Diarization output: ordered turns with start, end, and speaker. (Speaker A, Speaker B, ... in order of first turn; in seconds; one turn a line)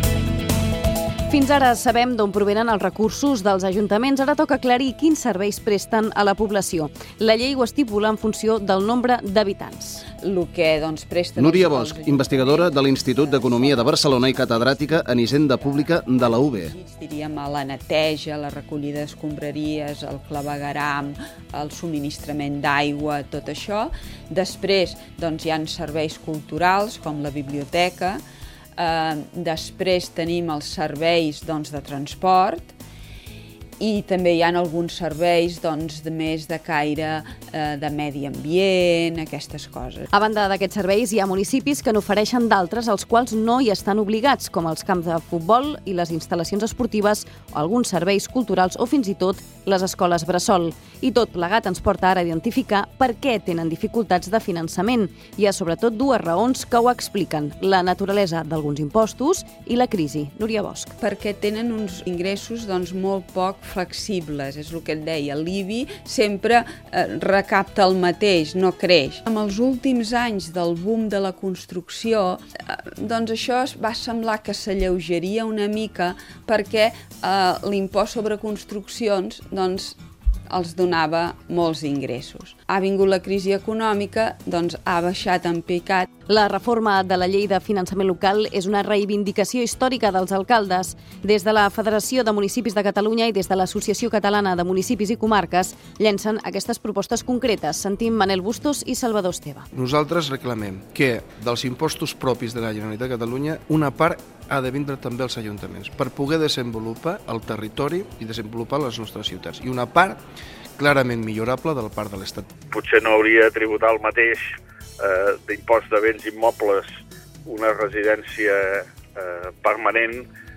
Speaker A: 1.3-10.1
Speaker B: 10.2-14.2
Speaker C: 11.4-16.7
Speaker B: 16.3-28.2
Speaker B: 28.8-32.8
Speaker B: 33.8-40.0
Speaker A: 40.1-60.9
Speaker B: 61.0-80.0
Speaker B: 80.5-86.1
Speaker A: 86.3-99.7
Speaker D: 99.7-110.2
Speaker D: 110.8-112.5
Speaker E: 112.7-114.4
Speaker E: 115.0-116.9
Speaker E: 117.5-120.3